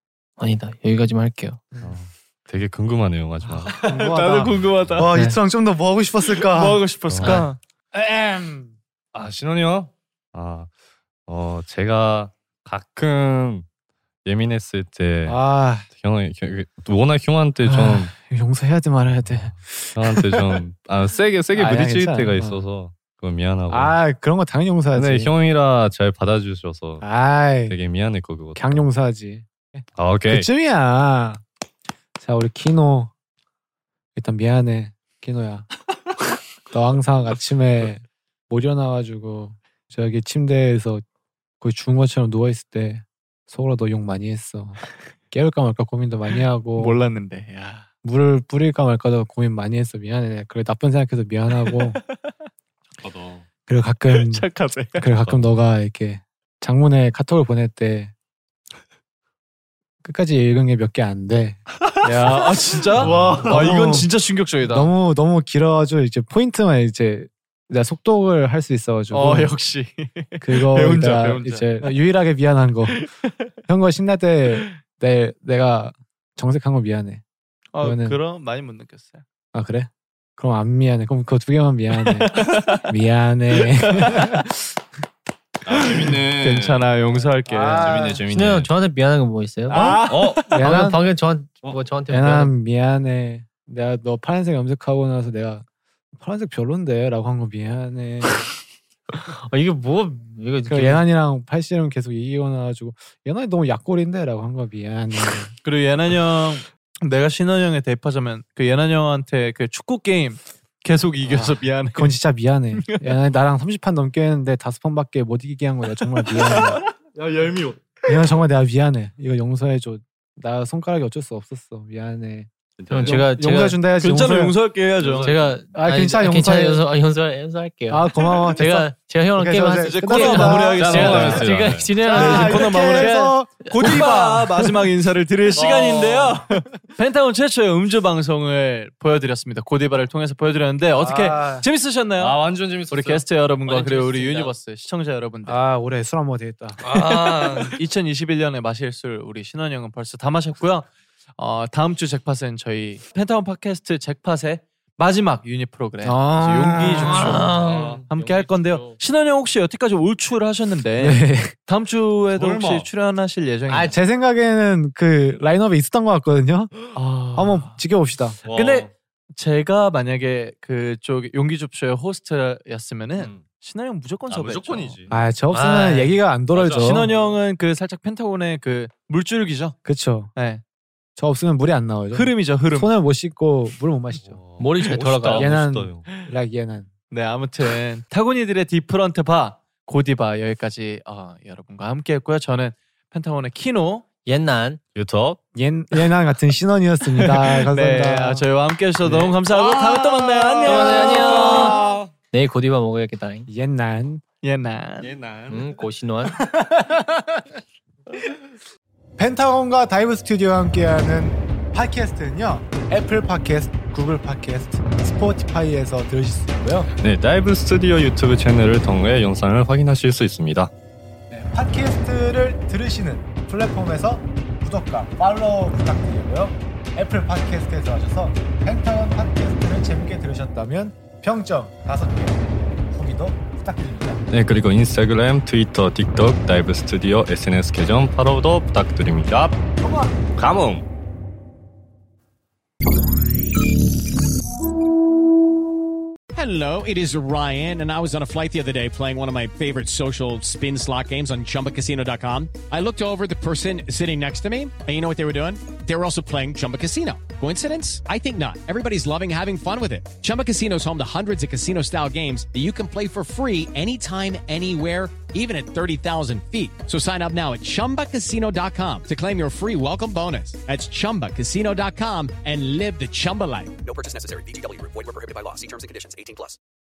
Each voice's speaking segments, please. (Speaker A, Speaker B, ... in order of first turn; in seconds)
Speaker A: 0.4-1.7, 5.1-5.4, 88.3-90.0, 90.5-92.5, 99.1-101.0, 122.9-123.8, 125.2-133.1, 133.8-134.0, 143.7-144.6, 157.0-159.0, 175.5-176.2, 184.6-185.6, 194.2-194.8, 200.7-203.5, 205.5-206.4
Speaker B: 1.8-3.9, 4.5-5.1, 7.1-7.5, 9.1-10.7, 11.3-13.7, 14.2-15.4, 15.9-18.1, 19.3-24.0, 24.9-27.1, 27.7-28.8, 30.0-30.5, 53.0-53.5, 61.9-63.9, 85.7-86.9, 87.7-88.7, 89.8-90.5, 117.1-117.9, 122.8-123.3, 125.0-125.5, 130.8-132.2, 135.5-136.4, 142.2-143.2, 146.8-147.8, 157.4-158.1, 162.4-162.9, 168.4-168.9, 173.2-173.4, 174.3-175.3, 176.5-177.4, 184.2-186.1, 194.9-195.4, 199.4-202.1, 205.0-205.8, 217.0-220.7, 234.3-239.6, 240.4-240.9
Speaker C: 3.5-5.1, 6.3-7.6, 46.8-47.9, 51.7-52.0, 54.1-55.1, 62.0-64.9, 69.1-71.8, 72.9-73.3, 77.7-79.2, 82.0-82.9, 83.7-84.4, 85.8-88.1, 89.7-90.6, 105.6-112.2, 112.8-113.1, 116.0-116.8, 123.9-125.4, 129.8-131.5, 132.1-145.6, 147.7-150.9, 151.4-164.0, 166.9-167.8, 168.5-175.0, 176.8-179.8, 180.4-180.6, 182.1-182.9, 187.1-194.1, 197.1-201.8, 204.4-205.1
Speaker D: 3.7-6.8, 7.9-8.8, 15.3-15.9, 17.6-20.6, 21.5-22.6, 23.7-25.3, 27.0-27.8, 28.6-31.4, 32.2-33.1, 34.2-35.7, 36.7-41.0, 41.6-47.0, 48.0-52.0, 53.7-58.1, 60.0-61.6, 63.0-64.1, 64.7-69.5, 70.4-73.1, 73.7-77.2, 77.8-78.2, 79.5-84.7, 87.5-88.2, 89.7-91.0, 92.1-98.5, 100.7-105.5, 111.2-116.8, 118.1-124.6, 125.7-126.9, 127.9-131.5, 132.0-134.9, 140.9-141.7, 145.5-147.5, 156.0-157.4, 161.0-161.5, 163.7-168.4, 175.1-177.1, 179.8-180.3, 181.2-184.4, 185.3-186.9, 195.6-198.4, 200.6-201.8, 203.5-204.2, 206.5-207.0, 209.2-216.9, 221.3-234.2, 239.8-240.1
Speaker E: 246.3-273.7
Speaker F: 273.8-276.6